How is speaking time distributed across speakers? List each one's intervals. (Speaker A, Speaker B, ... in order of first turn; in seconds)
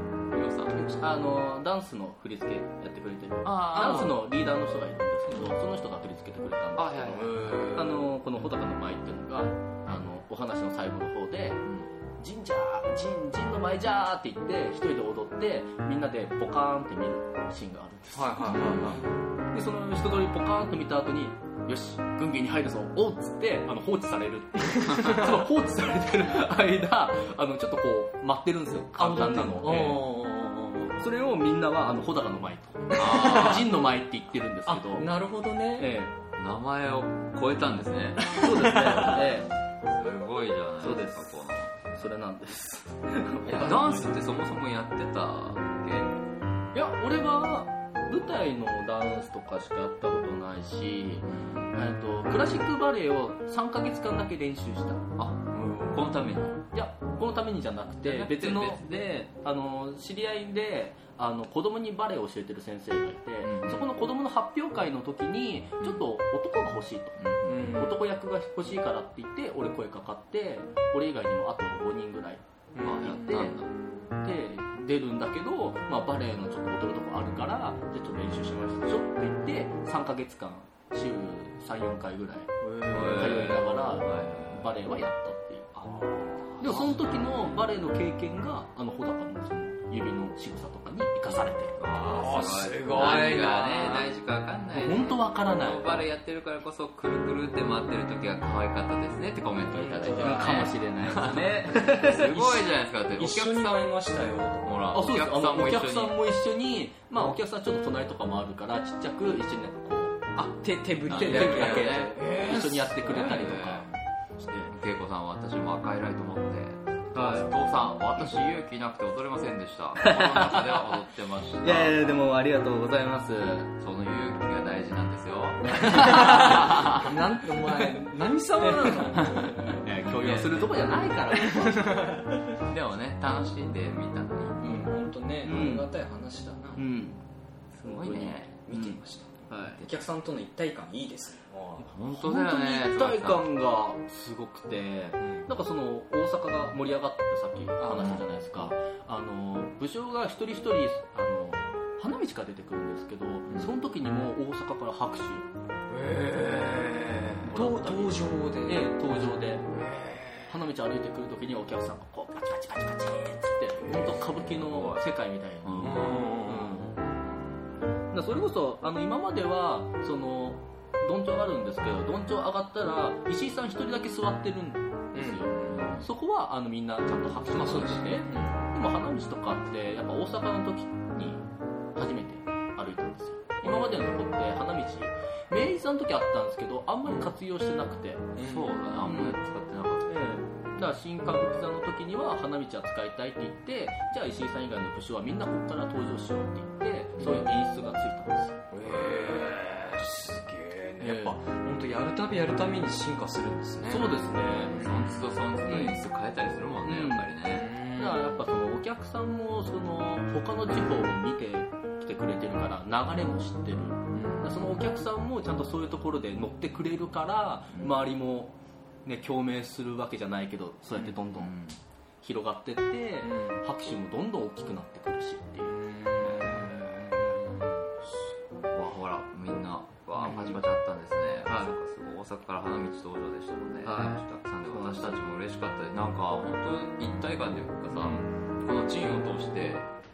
Speaker A: 0.3-1.0, 3.5-4.2, 6.8-7.9, 18.5-19.0, 33.0-33.7, 36.4-38.4, 39.9-41.8, 43.4-46.1, 51.3-51.7, 55.2-56.6, 58.0-58.8, 63.4-63.9, 67.2-67.7, 72.8-73.7, 82.9-84.7, 86.6-87.2, 91.8-103.9, 104.6-106.1, 111.1-112.2, 113.1-113.9, 114.7-122.0, 123.8-127.1, 129.9-130.7, 132.6-134.9, 137.7-138.6, 141.8-143.4, 164.8-165.0, 165.6-166.0, 175.6-176.1, 188.4-190.2, 198.8-199.5, 204.8-207.7, 221.0-221.8, 226.2-226.7, 228.7-239.9
Speaker B: 0.9-11.7, 12.2-30.1, 31.0-35.1, 35.8-36.2, 38.3-39.5, 40.8-44.1, 46.7-55.0, 56.7-73.6, 74.2-85.7, 86.6-91.8, 92.9-93.6, 94.8-95.8, 100.1-101.7, 104.9-110.2, 111.1-114.7, 117.1-117.5, 120.0-120.9, 121.6-123.7, 125.8-127.1, 127.7-128.0, 128.6-132.4, 135.4-135.9, 136.8-137.2, 137.8-139.8, 142.1-155.5, 157.4-159.7, 160.5-166.9, 168.1-188.3, 189.0-189.4, 190.1-198.7, 201.0-201.4, 203.9-204.8, 205.7-205.9, 206.8-207.3, 207.9-221.5, 222.2-225.7, 233.8-235.2
Speaker C: 18.1-19.0, 29.0-31.0, 33.1-33.6, 34.7-35.9, 38.2-39.4, 67.5-68.0, 72.8-73.5, 82.7-83.2, 85.8-86.7, 92.0-94.1, 99.7-100.7, 101.7-104.8, 110.4-113.5, 125.9-129.9, 131.3-132.2, 134.6-136.8, 137.9-141.9, 147.8-148.2, 155.9-159.0, 159.7-160.5, 163.8-164.4, 165.8-167.0, 175.2-175.6, 177.5-178.6, 183.6-184.2, 188.4-188.8, 197.2-197.4, 198.7-205.2, 207.5-208.2, 214.2-214.5, 223.2-223.6, 225.7-227.9, 230.2-230.6